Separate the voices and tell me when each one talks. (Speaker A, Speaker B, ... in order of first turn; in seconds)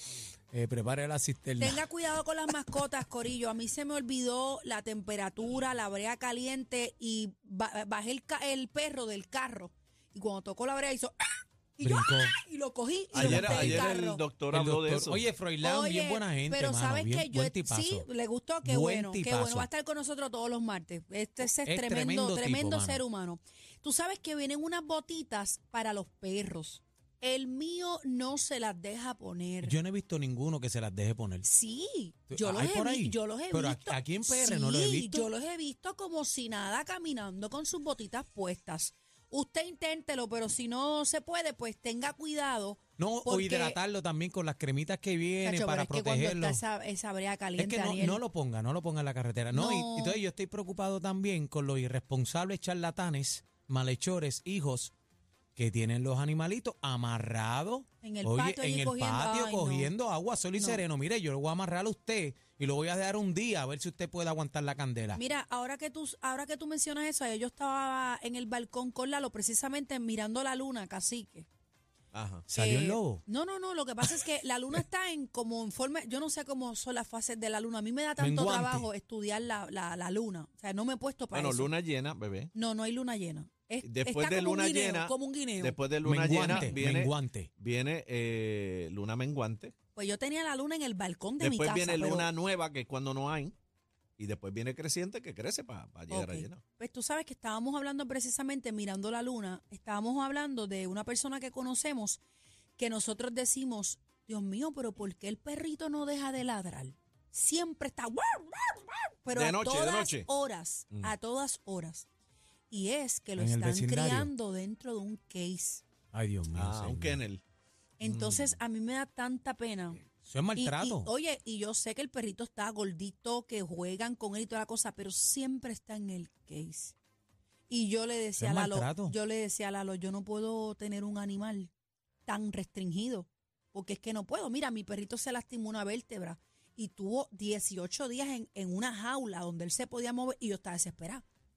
Speaker A: 0.5-1.8, 11.8-12.3, 13.1-13.9, 14.5-18.1, 18.6-19.7, 21.4-23.0, 29.6-31.4, 32.3-35.3, 43.0-46.6, 47.6-54.9, 55.5-65.2, 72.5-73.2, 78.2-78.9, 86.0-87.5, 113.3-114.3, 116.1-117.2, 120.2-121.1, 128.4-129.1
Speaker B: 1.6-14.2, 15.6-29.8, 31.4-43.8, 45.4-48.2, 49.5-50.2, 58.0-59.9, 60.5-60.8, 65.1-71.5, 72.5-81.7, 82.5-85.8, 86.3-86.8, 89.9-92.3, 96.1-102.2, 102.8-112.1, 112.7-115.8, 118.0-120.0, 120.5-126.9, 127.7-131.7, 132.2-141.2
Speaker C: 13.1-15.2, 72.1-72.5, 81.3-82.5, 83.8-89.7, 91.4-93.5, 94.2-96.6, 109.3-110.3, 116.5-117.4, 118.0-118.6